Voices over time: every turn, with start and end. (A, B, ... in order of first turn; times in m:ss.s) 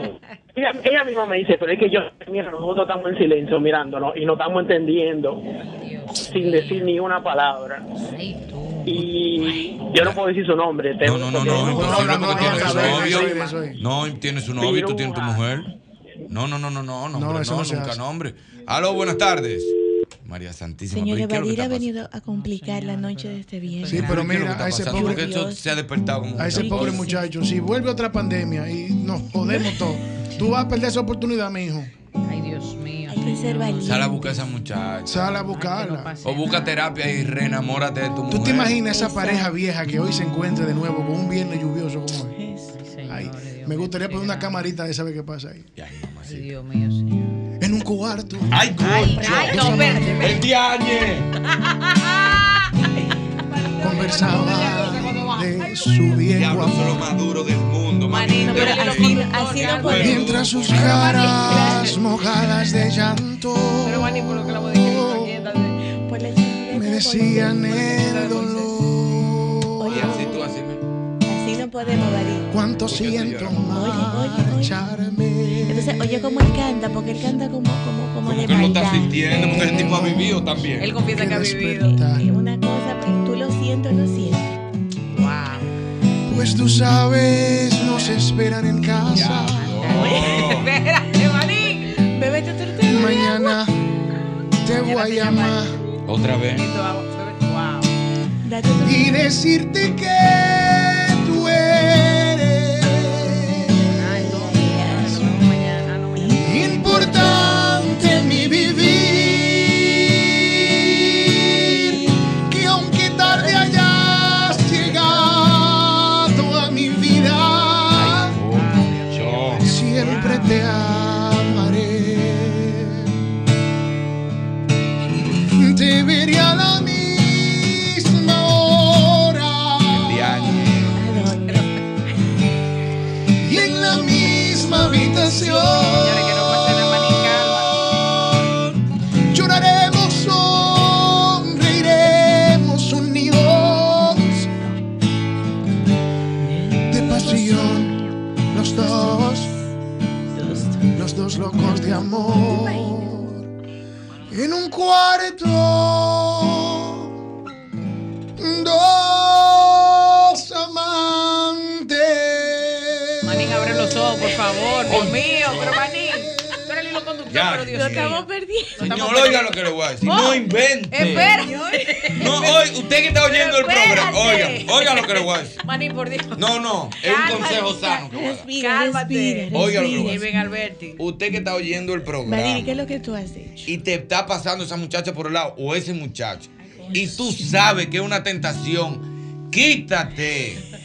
0:00.5-0:05.4 A
0:05.6-0:06.9 B
0:06.2-0:07.8 A
0:08.0-0:09.9 B
0:08.8-0:13.7 A
0:11.0-0:15.7 C
0:11.5-0:13.8 D
0:14.6-0:15.5 A
0:16.3-0:19.7 C
0:17.1-0:18.0 D
0:20.2-0:21.9 C
0:20.9-0:24.3 E
0:22.2-0:24.2 B
0:23.9-0:27.1 C
0:23.9-0:25.3 D
0:24.9-0:25.6 E
0:26.4-0:31.9 D
0:26.4-0:27.3 E
0:32.2-0:34.0 B
0:33.1-0:34.4 E
0:33.8-0:35.4 C
0:35.1-0:36.2 D
0:35.5-0:36.7 B
0:36.2-0:38.8 C
0:38.3-0:42.4 D
0:38.8-0:39.5 E
0:42.3-0:42.7 E
0:42.7-0:44.6 B
0:43.1-0:45.7 D
0:45.8-0:46.5 C
0:46.2-0:47.3 B
0:47.6-0:50.2 D
0:48.5-0:51.3 C
0:48.8-0:50.4 B
0:51.9-0:52.4 B
0:53.5-0:55.8 B
0:53.8-0:57.0 D
0:56.3-1:01.6 C
0:58.1-1:01.9 B
0:58.5-1:00.3 E
1:00.0-1:05.5 D
1:01.3-1:01.9 E
1:03.8-1:05.8 B
1:05.8-1:07.7 E
1:06.7-1:10.2 D
1:07.7-1:08.8 B
1:09.8-1:10.4 E
1:09.9-1:10.8 C
1:11.2-1:12.6 E
1:12.5-1:16.5 D
1:12.8-1:13.8 C
1:13.6-1:14.8 E
1:15.6-1:20.0 E
1:18.2-1:20.9 C
1:19.4-1:22.3 D
1:20.8-1:21.9 B
1:21.8-1:24.5 E
1:25.1-1:25.7 B
1:26.3-1:29.8 D
1:29.1-1:30.7 C
1:29.6-1:31.9 B
1:30.0-1:30.4 E
1:31.9-1:33.5 E
1:32.8-1:33.8 D
1:34.6-1:35.8 D
1:34.8-1:35.6 B
1:36.1-1:36.6 C
1:36.6-1:37.9 B
1:38.4-1:39.2 E
1:38.8-1:44.0 D
1:44.0-1:47.0 B
1:44.2-1:45.5 E
1:46.1-1:48.8 E
1:46.4-1:58.4 D
1:51.7-1:52.2 E
1:54.8-1:55.1 B
1:57.9-1:59.7 C
1:58.5-2:00.6 B
1:59.6-2:03.1 D
2:05.4-2:10.7 D
2:09.9-2:10.9 C
2:10.9-2:11.7 E
2:13.4-2:18.6 D
2:14.6-2:15.0 E
2:15.3-2:17.7 B
2:19.3-2:24.5 D
2:26.4-2:28.1 E
2:26.8-2:28.0 D
2:28.5-2:29.5 D
2:28.7-2:29.4 E
2:30.3-2:30.9 E
2:30.9-2:33.5 D
2:31.5-2:33.1 E
2:34.3-2:37.1 D
2:38.4-2:43.4 D
2:43.2-2:48.2 B
2:44.8-2:45.8 C
2:45.9-2:46.7 D
2:47.3-2:48.2 C
2:47.7-2:48.9 E
2:48.8-2:49.5 B
2:48.8-2:51.3 C
2:50.0-2:52.6 B
2:52.2-2:55.6 C
2:53.2-2:56.4 B
2:56.4-2:58.5 C
2:57.0-2:58.0 B
2:58.1-3:00.4 E
2:58.5-3:01.0 B
2:59.5-3:00.2 C
3:01.0-3:02.7 C
3:02.2-3:03.7 E
3:03.6-3:10.6 C
3:06.7-3:07.0 B